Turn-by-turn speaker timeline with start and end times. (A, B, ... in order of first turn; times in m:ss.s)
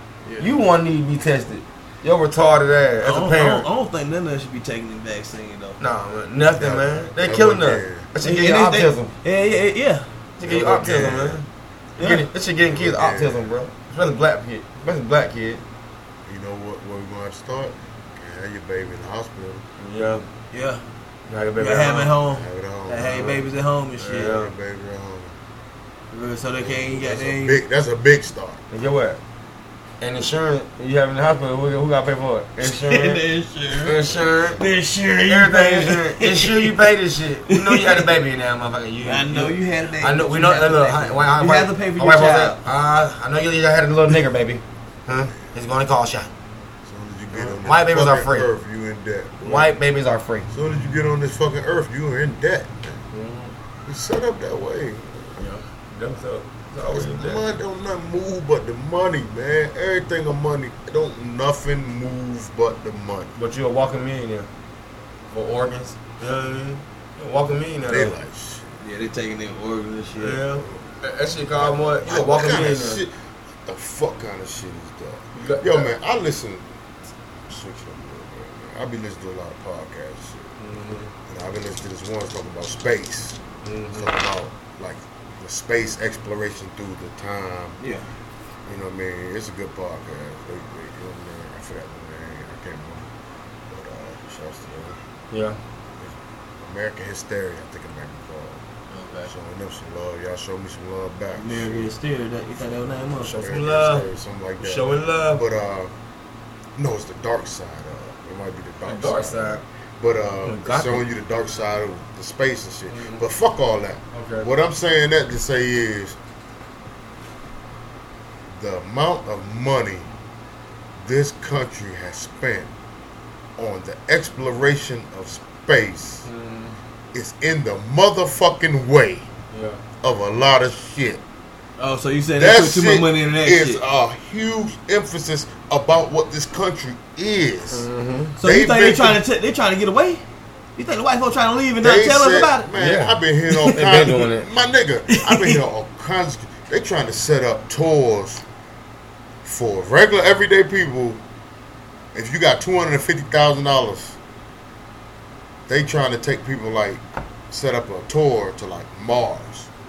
0:00.2-0:00.5 A
0:00.4-0:03.7 B
0:03.0-0:05.8 A
0:05.8-0:09.1 B
0:06.5-0:08.1 C
0:08.2-0:10.0 A
0:10.4-0:11.4 B
0:10.4-0:11.4 C
0:12.0-0:12.3 A
0:12.0-0:15.6 B
0:12.7-0:13.5 C
0:16.2-0:19.6 C
0:19.8-0:20.2 B
0:20.5-0:20.8 A
0:21.3-0:22.1 B
0:21.6-0:24.4 A
0:22.2-0:23.4 C
0:24.0-0:24.5 B
0:24.2-0:25.3 C
0:26.1-0:27.6 A
0:26.6-0:28.6 C
0:28.7-0:29.2 B
0:30.0-0:33.2 B
0:32.6-0:34.0 A
0:33.8-0:34.6 B
0:34.6-0:36.9 A
0:35.2-0:46.3 B
0:37.5-0:38.1 A
0:39.0-0:42.6 A
0:46.8-0:49.7 C
0:47.3-0:48.5 B
0:49.4-0:50.5 B
0:50.5-0:53.0 C
0:53.1-0:53.5 B
0:53.8-0:55.4 C
0:55.4-0:57.4 B
0:56.8-1:03.3 C
1:03.4-1:04.5 B
1:05.3-1:08.1 B
1:07.9-1:08.6 C
1:08.8-1:10.4 A
1:10.2-1:13.0 B
1:11.5-1:13.1 C
1:13.6-1:16.7 C
1:15.3-1:15.9 B
1:17.5-1:20.4 C
1:20.6-1:21.1 B
1:21.3-1:23.4 C
1:23.6-1:24.1 B
1:23.9-1:27.8 C
1:28.6-1:33.1 C
1:33.7-1:35.0 C
1:35.3-1:35.6 B
1:36.0-1:38.6 C
1:38.9-1:39.3 A
1:39.3-1:41.9 C
1:41.3-1:43.3 A
1:43.2-1:44.0 B
1:43.2-1:45.9 C
1:44.6-1:45.4 B
1:46.8-1:56.2 C
1:48.8-1:49.6 B
1:50.4-1:51.0 B
1:52.9-1:53.2 B
1:54.1-1:54.5 B
1:58.5-2:00.1 C
2:01.0-2:02.7 C
2:03.6-2:06.3 C
2:06.2-2:06.8 B
2:07.1-2:09.3 C
2:09.5-2:09.8 B
2:10.0-2:11.2 C
2:11.8-2:13.8 A
2:12.4-2:17.9 C
2:17.7-2:18.3 B
2:18.4-2:20.2 A
2:18.4-2:19.2 C
2:20.8-2:22.7 A
2:21.8-2:28.4 C
2:22.7-2:24.5 B
2:23.5-2:23.9 A
2:25.1-2:25.6 A
2:29.4-2:31.2 C
2:32.1-2:34.2 C
2:35.7-2:39.7 C